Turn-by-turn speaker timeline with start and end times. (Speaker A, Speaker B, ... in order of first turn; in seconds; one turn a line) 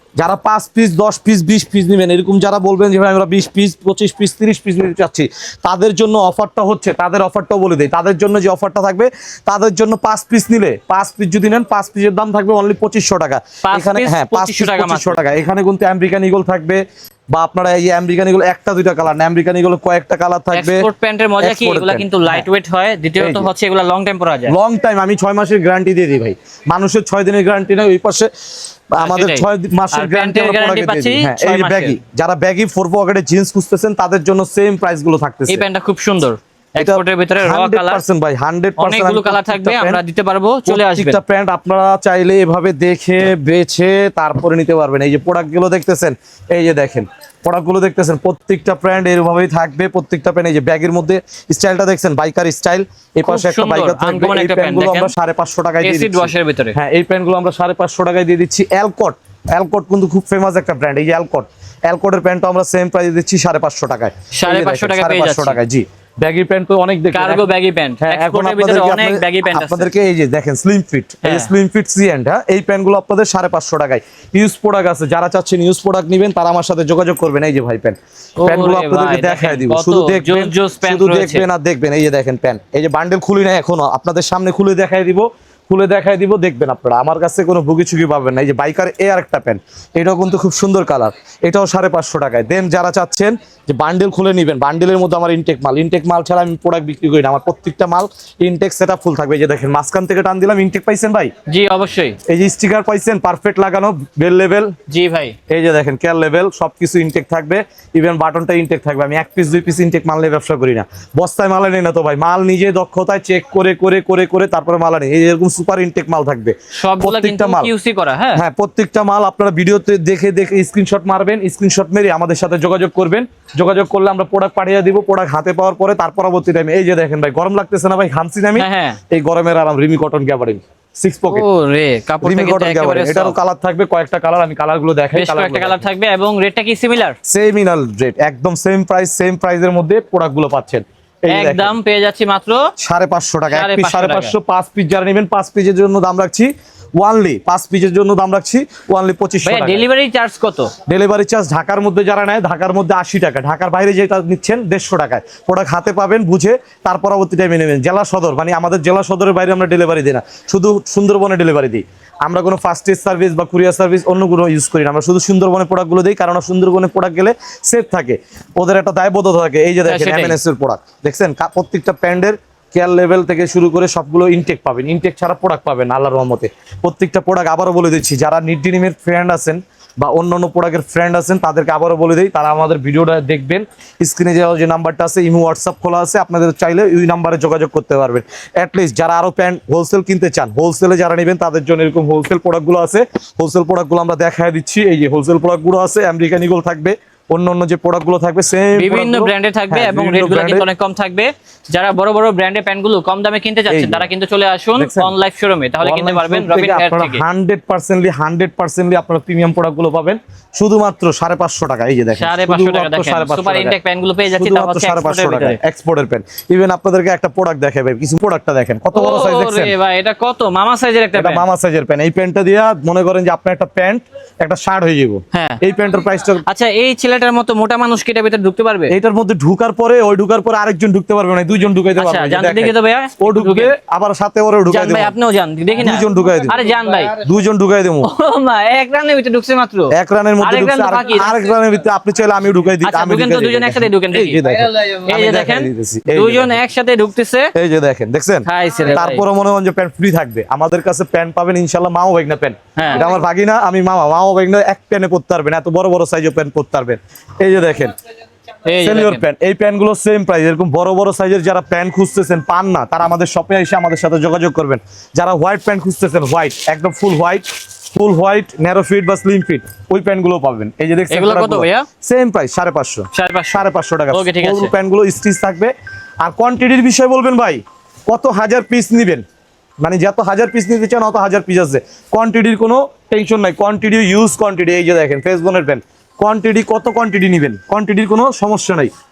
Speaker A: 0.2-16.8
Speaker B: 13.6-15.2
Speaker A: 17.3-20.9
Speaker B: 20.5-24.6
Speaker A: 21.4-22.5
Speaker A: 23.2-23.5
Speaker A: 24.5-28.3
Speaker A: 28.9-35.6
Speaker B: 29.0-32.0
Speaker B: 35.5-38.0
Speaker A: 36.8-40.0
Speaker B: 38.8-41.2
Speaker A: 40.7-67.5
Speaker B: 53.3-55.1
Speaker B: 55.8-56.8
Speaker B: 64.3-65.6
Speaker B: 67.1-69.9
Speaker A: 68.0-101.3
Speaker B: 71.2-71.5
Speaker B: 78.4-81.5
Speaker B: 101.5-102.2
Speaker A: 102.3-104.7
Speaker B: 104.9-105.4
Speaker A: 105.5-117.7
Speaker B: 116.8-118.4
Speaker A: 118.3-131.4
Speaker B: 128.6-129.0
Speaker B: 131.3-133.4
Speaker A: 132.2-135.8
Speaker B: 135.1-137.2
Speaker A: 137.3-141.8
Speaker B: 141.3-142.7
Speaker A: 142.8-149.8
Speaker B: 143.5-144.3
Speaker B: 149.4-150.7
Speaker A: 150.9-200.7
Speaker B: 169.8-170.4
Speaker B: 198.8-207.2
Speaker A: 203.7-204.1
Speaker A: 204.8-205.2
Speaker A: 205.8-213.8
Speaker B: 212.2-215.6
Speaker A: 214.3-219.7
Speaker B: 218.9-221.4
Speaker A: 221.2-226.4
Speaker B: 225.3-225.6
Speaker B: 226.5-228.9
Speaker A: 228.9-235.2
Speaker B: 232.0-233.8
Speaker B: 234.7-237.2
Speaker A: 235.8-238.1
Speaker B: 238.0-241.4
Speaker A: 239.9-246.6
Speaker B: 242.8-247.5
Speaker A: 247.6-257.9
Speaker B: 248.5-249.2
Speaker B: 252.8-253.1
Speaker B: 258.7-259.2
Speaker A: 258.8-279.2
Speaker B: 271.1-271.9
Speaker B: 273.1-274.7
Speaker A: 279.8-288.9